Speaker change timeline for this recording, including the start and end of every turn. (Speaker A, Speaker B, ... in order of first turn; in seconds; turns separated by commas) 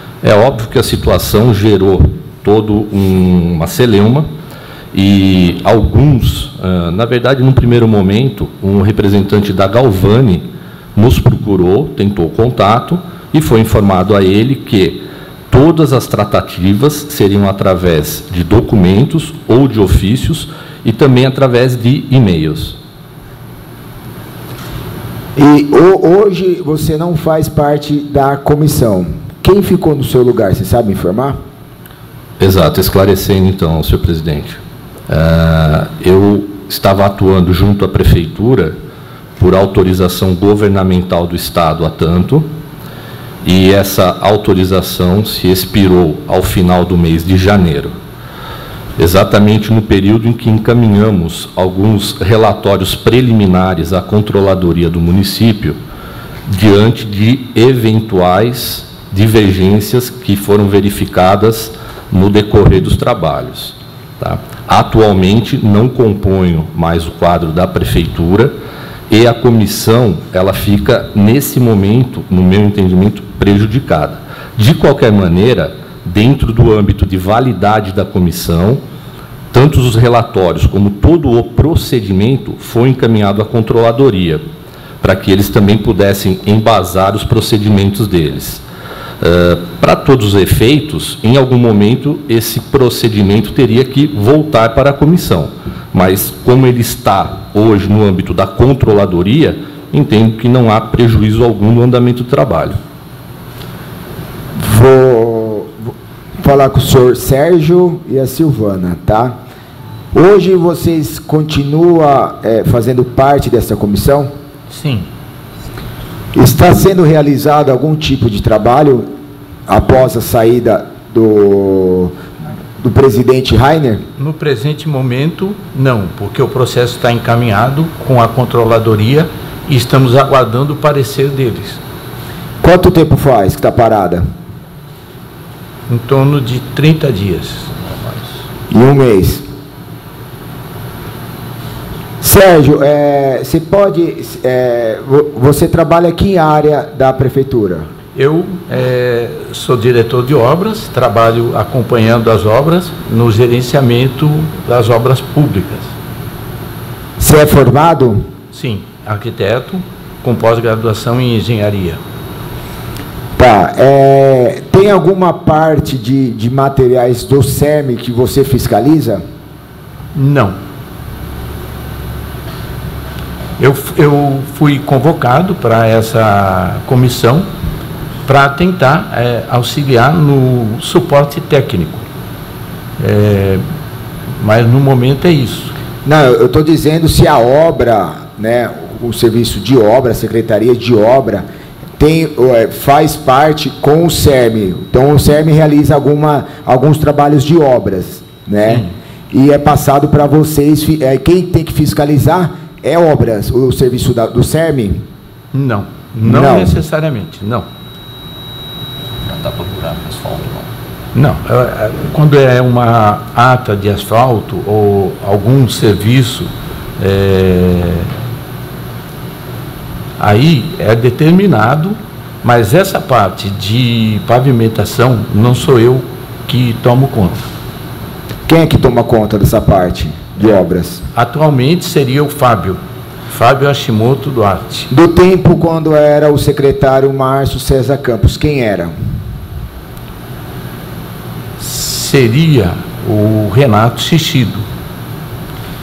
Speaker A: 0.2-4.3, Speaker A: 4.9-22.8, Speaker B: 25.4-31.4, Speaker A: 32.4-38.8, Speaker A: 39.4-42.5, Speaker A: 43.4-48.0, Speaker A: 49.0-55.8, Speaker A: 56.5-68.5, Speaker A: 69.1-78.8, Speaker A: 79.5-84.4, Speaker A: 85.0-88.6, Speaker A: 89.2-102.8, Speaker B: 104.5-109.3, Speaker B: 110.1-114.3, Speaker C: 114.7-115.1, Speaker B: 116.3-119.1, Speaker B: 119.7-122.2, Speaker B: 122.8-124.0, Speaker C: 124.2-131.8, Speaker B: 132.6-134.2, Speaker C: 135.9-137.8, Speaker B: 138.7-139.5, Speaker B: 142.2-147.9, Speaker C: 148.2-155.9, Speaker B: 157.2-158.3, Speaker C: 158.5-162.0, Speaker B: 163.4-169.2, Speaker C: 170.1-170.6, Speaker C: 173.6-177.5, Speaker C: 178.3-182.1, Speaker C: 183.0-183.6, Speaker C: 184.4-185.7, Speaker B: 186.1-191.4, Speaker B: 192.0-205.1, Speaker C: 198.6-198.9, Speaker C: 205.5-207.7, Speaker B: 206.2-206.8, Speaker A: 209.3-210.7, Speaker C: 211.1-218.1, Speaker C: 220.2-227.5, Speaker B: 228.5-231.1, Speaker C: 231.1-234.9, Speaker B: 234.9-238.9, Speaker C: 241.6-244.7